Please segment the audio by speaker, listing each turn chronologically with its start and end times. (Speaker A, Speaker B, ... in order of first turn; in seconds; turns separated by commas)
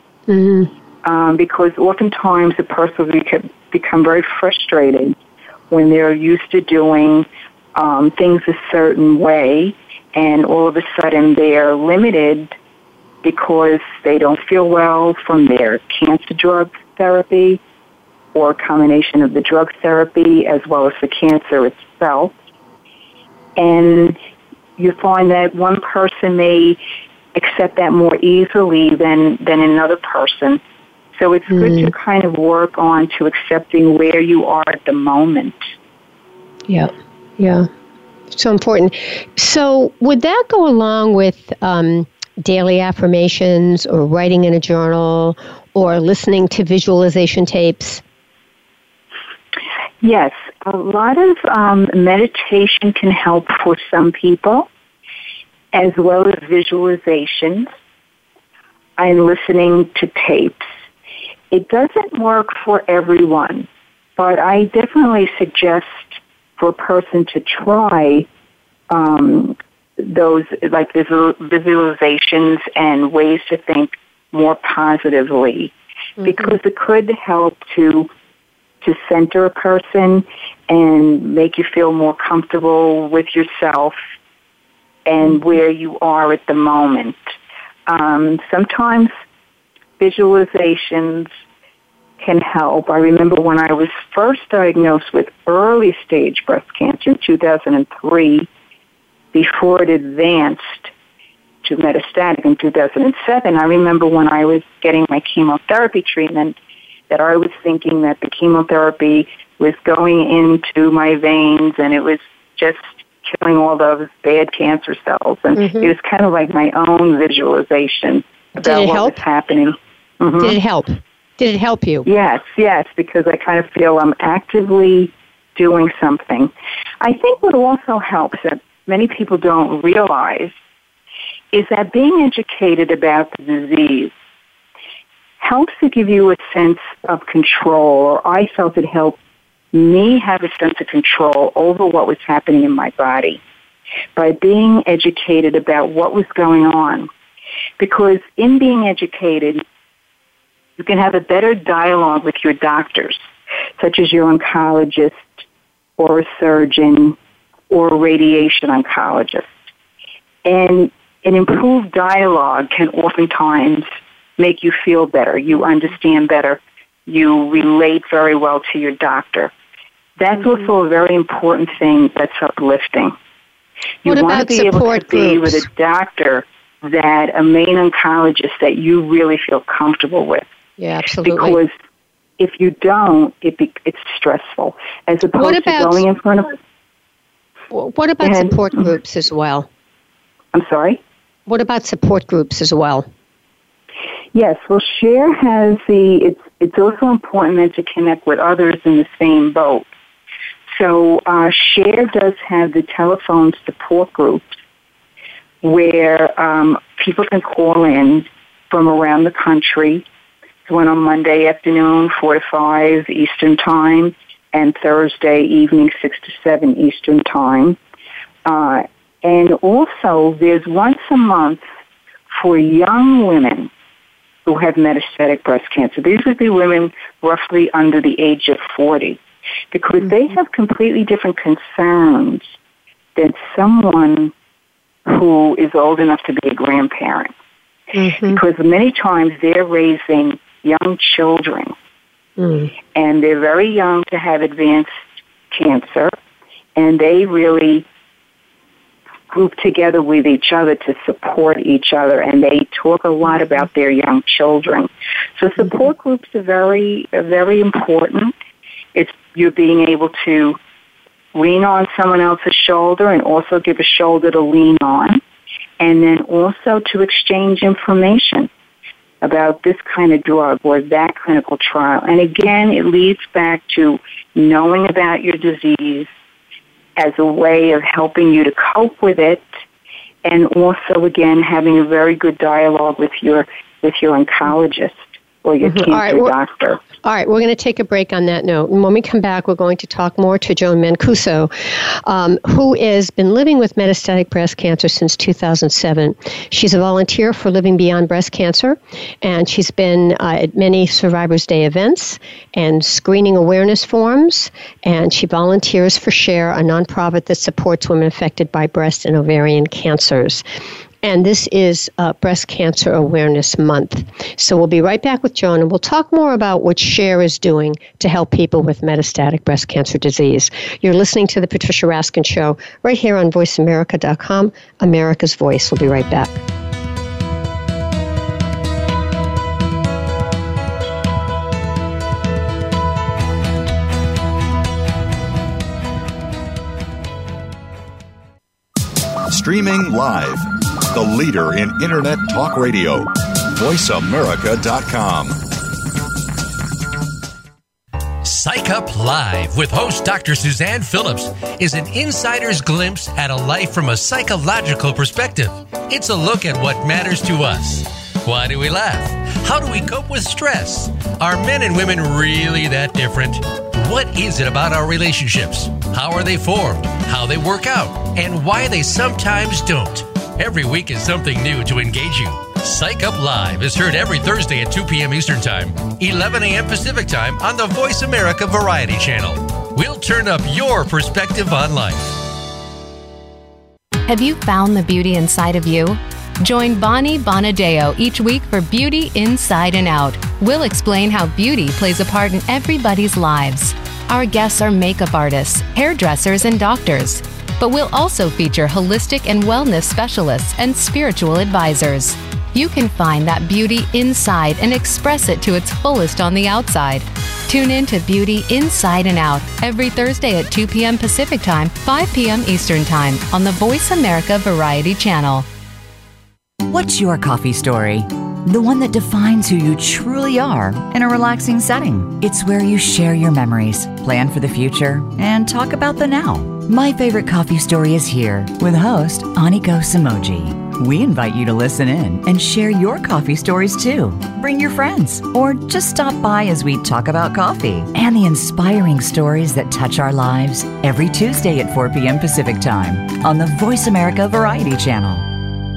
Speaker A: 0.3-0.7, Speaker B: 1.0-5.2, Speaker B: 5.7-12.6, Speaker B: 13.2-17.6, Speaker B: 18.3-22.3, Speaker B: 23.6-24.2, Speaker B: 24.8-26.8, Speaker B: 27.3-30.6, Speaker B: 31.2-35.6, Speaker A: 31.5-31.9, Speaker A: 36.7-37.7, Speaker A: 38.3-48.0, Speaker B: 50.0-54.7, Speaker B: 55.7-57.7, Speaker B: 59.0-60.7, Speaker B: 61.5-68.3, Speaker B: 68.9-78.1, Speaker B: 78.8-84.0, Speaker B: 85.1-87.2, Speaker B: 87.9-89.1, Speaker B: 90.0-91.3, Speaker B: 92.2-98.5, Speaker B: 99.3-100.9, Speaker B: 101.6-106.6, Speaker B: 107.1-120.6, Speaker A: 115.6-115.9, Speaker A: 118.6-119.2, Speaker A: 120.4-122.1, Speaker B: 122.1-130.6, Speaker B: 131.5-134.1, Speaker B: 135.4-139.2, Speaker B: 139.7-143.4, Speaker B: 144.2-147.1, Speaker B: 147.8-149.6, Speaker B: 150.8-153.2, Speaker B: 153.8-155.4, Speaker B: 156.0-157.2, Speaker B: 157.7-159.5, Speaker B: 160.4-169.5, Speaker B: 170.2-173.2, Speaker B: 174.0-180.4, Speaker A: 174.1-175.7, Speaker A: 180.8-181.6, Speaker B: 181.3-181.7, Speaker B: 182.4-186.6, Speaker A: 185.3-186.0, Speaker A: 187.7-189.7, Speaker B: 188.2-188.6, Speaker B: 190.5-191.0, Speaker A: 191.5-193.1, Speaker B: 194.3-199.9, Speaker B: 200.7-204.4, Speaker B: 205.6-210.1, Speaker B: 210.7-217.8, Speaker B: 218.4-221.6, Speaker B: 222.3-223.7, Speaker B: 224.5-229.2, Speaker B: 229.7-232.4, Speaker B: 233.2-234.3, Speaker B: 235.1-237.3, Speaker A: 238.0-238.4, Speaker B: 238.3-241.7, Speaker A: 242.4-242.7, Speaker B: 242.9-246.1, Speaker B: 246.8-247.9, Speaker B: 249.3-258.3, Speaker B: 258.9-260.6, Speaker B: 261.3-265.2, Speaker B: 265.8-268.5, Speaker B: 269.2-276.1, Speaker B: 277.0-279.4, Speaker B: 280.2-286.8, Speaker A: 285.6-286.3, Speaker A: 287.0-310.4, Speaker A: 311.0-326.4, Speaker C: 339.3-345.4, Speaker D: 348.2-382.2, Speaker E: 384.1-415.5, Speaker F: 416.7-445.3